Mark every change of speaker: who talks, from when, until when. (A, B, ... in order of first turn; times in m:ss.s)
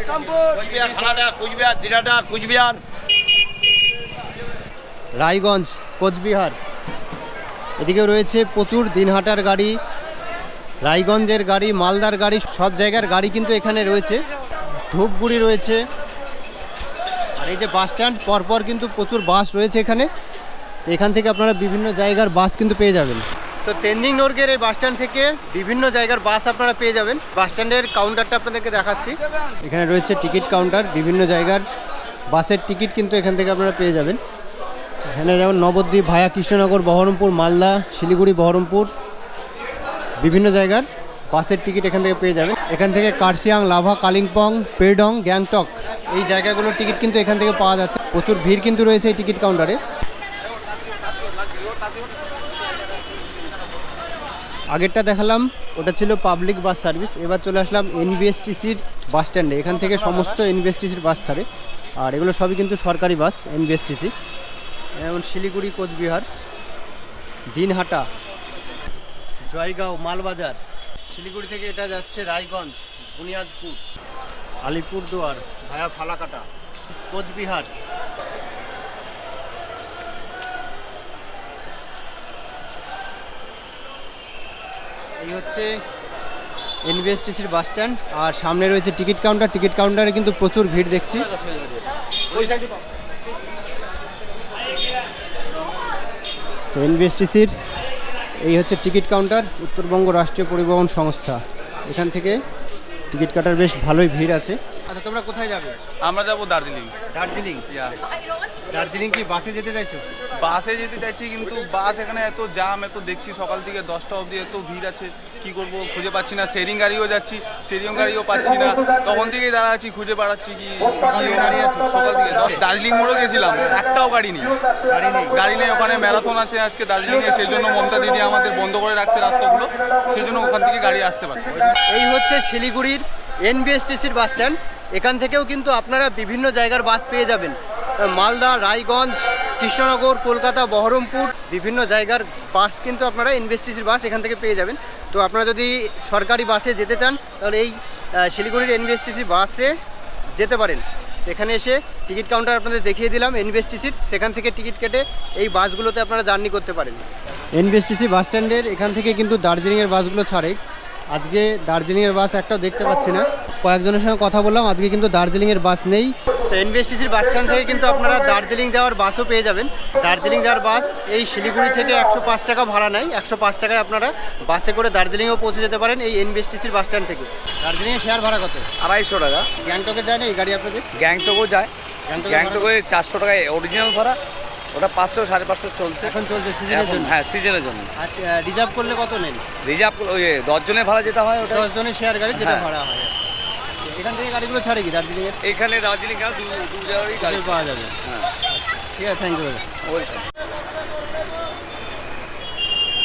0:00.2-0:02.8 A
0:05.2-0:06.6 B
0:07.8-0:09.7 B
0:10.8-0:14.2 B
0:14.9-0:15.8 B
0:17.4-0:20.1 B
0:20.8-0:31.6 B
0:32.3-0:34.2 B
0:35.1-0:38.9 B
0:40.2-0:49.8 B
0:54.7-1:01.4 B
1:02.0-1:04.1 B
1:05.0-1:06.2 B
1:07.5-1:08.1 B
1:09.5-1:13.8 B
1:14.6-1:16.4 B
1:17.1-1:17.7 B
1:25.2-1:25.7 B
1:26.8-1:31.3 B
1:36.7-1:37.5 B
1:38.4-1:42.4 B
1:43.1-1:45.8 B
1:46.1-1:46.9 C
1:47.1-1:47.6 B
1:47.7-1:48.0 C
1:48.7-1:50.0 B
1:50.4-2:04.5 C
2:01.0-2:02.6 B
2:04.9-2:05.3 B
2:05.4-2:11.5 C
2:11.7-2:29.7 B
2:30.4-2:37.0 B
2:37.6-2:40.6 B
2:41.1-2:58.7 B
2:58.8-2:59.5 A
2:59.6-3:00.8 B
3:01.0-3:04.2 A
3:02.1-3:02.7 B
3:04.7-3:07.9 A
3:06.0-3:07.1 B
3:08.0-3:09.4 B
3:09.6-3:11.7 A
3:11.5-3:13.1 B
3:12.3-3:12.7 A
3:13.9-3:15.4 B
3:15.4-3:18.3 A
3:17.2-3:18.0 B
3:18.5-3:19.6 B
3:19.8-3:20.2 A